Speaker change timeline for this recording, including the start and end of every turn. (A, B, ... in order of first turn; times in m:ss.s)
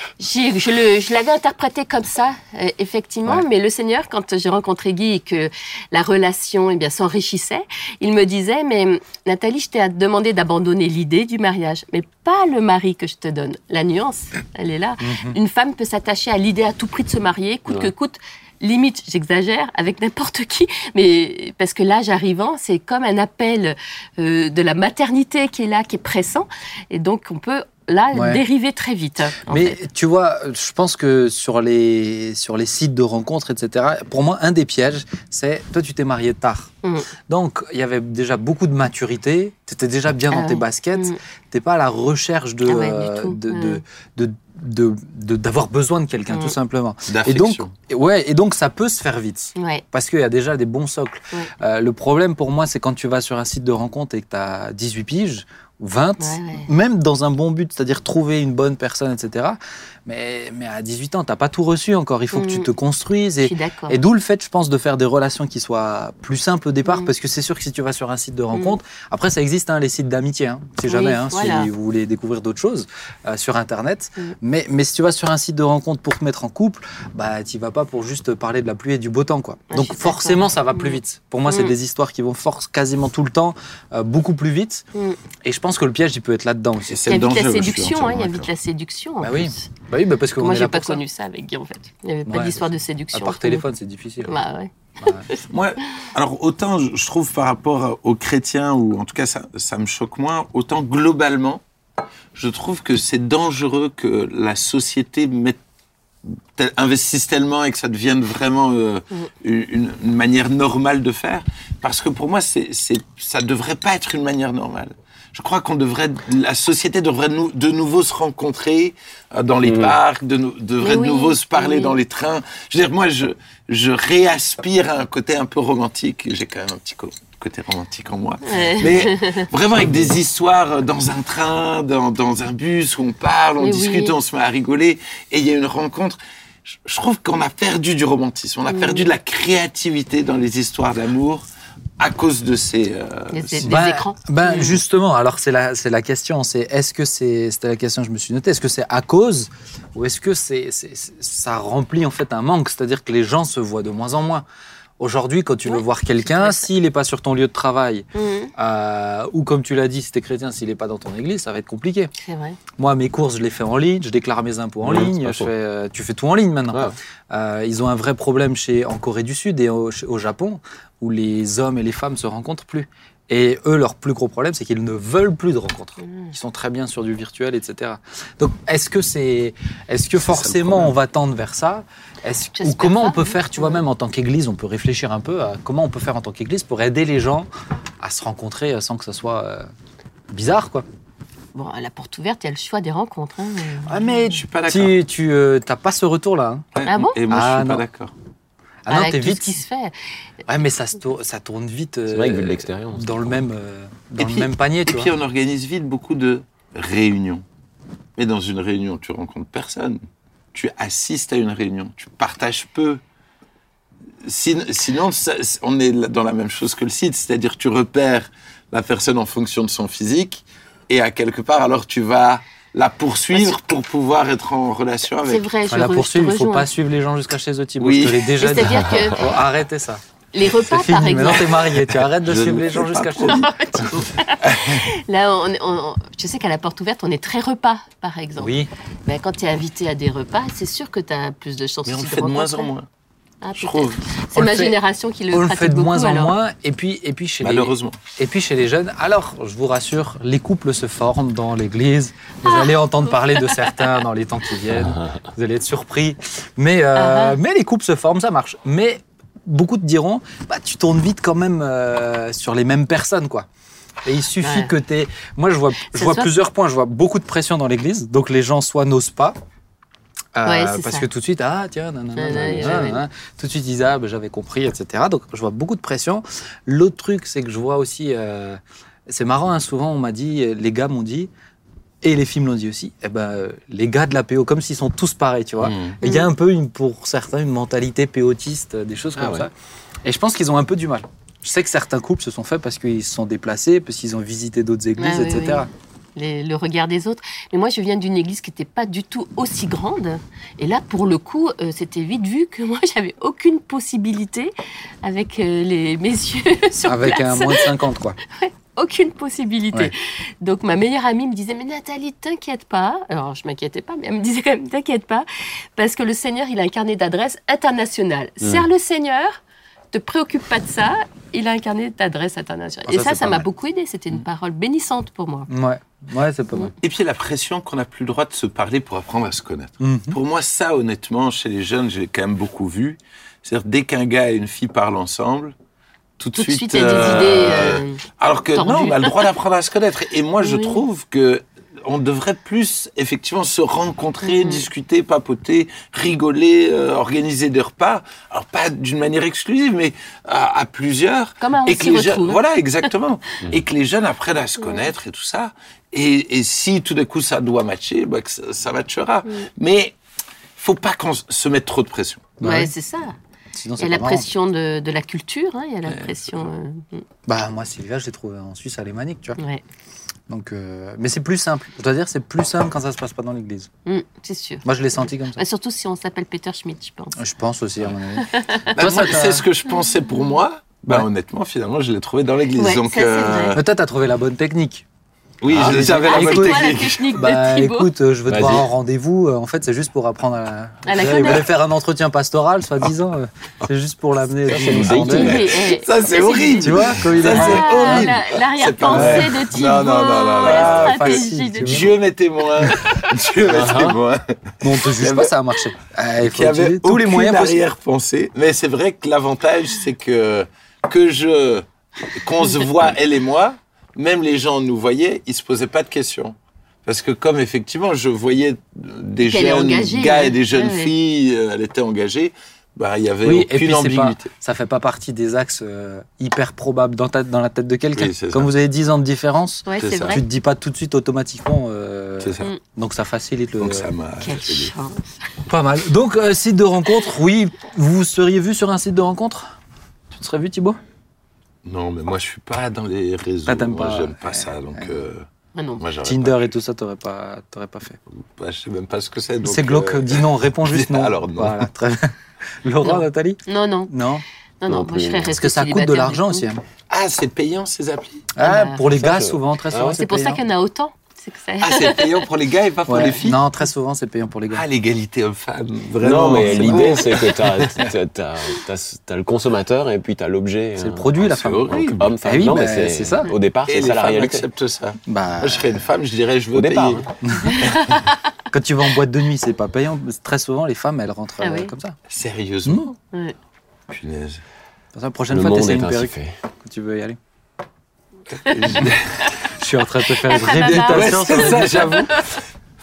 0:00.2-0:29.7 A
0:15.0-0:15.4 B
0:28.1-0:28.4 B
0:29.4-0:36.7 B
0:37.3-1:24.8 B
0:40.3-0:41.2 A
0:42.6-0:43.8 A
0:46.3-0:46.6 A
0:47.1-0:47.7 C
0:49.6-0:49.8 A
0:56.2-0:56.7 A
1:02.3-1:02.7 A
1:03.4-1:04.0 A
1:06.8-1:07.1 A
1:10.9-1:11.7 A
1:19.7-1:21.7 A
1:25.4-1:27.0 B
1:26.9-1:28.5 C
1:27.1-1:29.7 A
1:29.2-1:31.0 B
1:30.4-1:33.6 A
1:32.3-1:32.6 B
1:33.1-1:34.3 B
1:34.2-1:34.7 A
1:35.0-1:35.3 B
1:35.5-1:41.6 C
1:42.3-1:45.6 C
1:46.2-2:21.4 C
1:59.6-2:00.0 D
2:00.8-2:02.0 A
2:08.4-2:09.5 A
2:09.8-2:10.1 D
2:13.6-2:14.1 A
2:18.7-2:19.1 A
2:22.0-2:23.7 C
2:23.3-2:24.8 A
2:23.6-2:34.4 B
2:35.0-2:42.1 B
2:35.6-2:36.7 A
2:38.1-2:38.5 A
2:42.2-2:42.6 A
2:42.8-3:07.5 B
2:44.8-2:45.5 D
2:56.0-2:56.3 A
3:00.2-3:00.9 C
3:02.6-3:03.8 A
3:08.0-3:09.7 B
3:10.3-3:10.8 B
3:11.5-3:14.3 A
3:13.9-3:16.7 B
3:14.2-3:15.0 C
3:16.7-3:18.1 C
3:16.8-3:17.2 A
3:17.3-3:17.8 B
3:18.8-3:19.6 B
3:18.9-3:19.9 A
3:20.5-3:25.1 B
3:22.1-3:23.4 D
3:24.2-3:27.4 C
3:28.2-3:30.0 C
3:30.5-3:33.0 C
3:34.2-3:45.4 C
3:45.2-3:46.7 A
3:45.7-3:53.9 B
3:47.8-3:48.6 C
3:48.4-3:49.4 A
3:50.3-3:51.8 A
3:52.3-3:53.4 C
3:53.2-4:02.7 A
3:54.4-3:54.8 C
3:58.4-3:58.7 B
4:01.8-4:02.9 C
4:03.4-4:06.3 A
4:03.6-4:04.0 C
4:04.3-4:04.7 B
4:05.3-4:23.5 B
4:07.4-4:08.0 C
4:12.4-4:14.0 A
4:14.7-4:15.1 D
4:16.9-4:17.4 A
4:24.0-4:29.4 B
4:24.4-4:24.7 A
4:25.9-4:26.3 A
4:30.4-4:41.3 B
4:30.4-4:31.1 A
4:32.2-4:33.0 A
4:42.0-4:49.5 B
4:45.6-4:46.0 C
4:46.0-4:46.3 A
4:49.2-4:49.5 D
4:50.0-4:55.7 B
4:55.0-5:19.4 A
5:06.8-5:08.2 B
5:18.4-5:18.7 D
5:19.9-5:25.5 A
5:22.9-5:23.5 D
5:25.5-5:26.7 B
5:26.8-5:35.5 C
5:29.8-5:30.2 B
5:36.2-5:59.9 C
5:36.3-5:38.0 A
5:38.5-5:39.3 A
5:40.4-5:40.8 A
5:44.2-5:44.7 A
5:51.4-5:52.9 A
5:54.6-5:54.9 A
6:00.6-6:02.3 C
6:02.4-6:02.7 B
6:02.4-6:03.2 A
6:03.5-6:04.3 B
6:03.8-6:07.0 A
6:05.9-6:06.5 C
6:07.3-6:09.4 B
6:10.3-6:13.7 B
6:13.8-6:14.6 A
6:14.6-6:15.4 B
6:15.3-6:17.2 A
6:17.2-6:19.4 B
6:18.2-6:18.7 A
6:18.7-6:23.6 C
6:19.7-6:20.4 A
6:22.6-6:23.6 A
6:23.5-6:24.8 B
6:25.4-6:27.2 C
6:25.5-6:35.4 B
6:25.5-6:25.8 D
6:25.8-6:27.9 A
6:28.3-6:28.7 D
6:30.9-6:31.5 A
6:30.9-6:31.4 C
6:34.5-6:35.6 D
6:34.6-6:45.3 C
6:34.9-6:42.0 A
6:36.6-6:38.2 B
6:38.9-6:39.4 B
6:40.4-6:41.9 B
6:43.4-6:44.0 D
6:44.6-6:47.6 B
6:46.2-7:04.3 C
6:59.2-7:00.9 A
7:03.2-7:13.9 B
7:07.9-7:08.5 C
7:09.6-7:10.2 A
7:09.8-7:10.2 C
7:12.2-7:12.5 C
7:13.6-7:14.7 C
7:14.2-7:15.0 A
7:15.5-7:19.5 B
7:20.1-7:20.8 B
7:21.6-7:25.2 C
7:23.4-7:24.9 B
7:25.5-7:25.8 A
7:25.8-7:26.5 C
7:26.0-7:28.0 B
7:28.3-7:31.6 C
7:29.4-7:34.2 B
7:32.8-7:33.9 A
7:34.6-7:36.4 A
7:34.7-7:35.4 D
7:35.3-7:36.6 B
7:36.9-7:38.2 C
7:38.4-7:40.4 B
7:38.4-7:38.8 A
7:38.9-7:40.0 D
7:40.0-7:42.3 A
7:41.6-7:43.4 C
7:42.8-7:44.6 B
7:44.5-7:47.9 C
7:46.0-7:54.5 D
7:50.8-7:53.3 B
7:51.2-7:52.0 C
7:53.6-7:57.1 C
7:55.1-7:55.8 B
7:56.5-7:57.1 D
7:57.2-7:57.7 B
7:57.4-7:58.2 A
7:58.5-8:02.0 B
8:01.4-8:01.7 A
8:02.1-8:02.9 C
8:02.6-8:02.9 B
8:03.9-8:04.4 C
8:04.9-8:07.2 B
8:05.3-8:06.3 D
8:08.3-8:09.3 C
8:08.4-8:09.3 A
8:09.5-8:12.1 B
8:10.0-8:12.2 A
8:10.4-8:12.4 C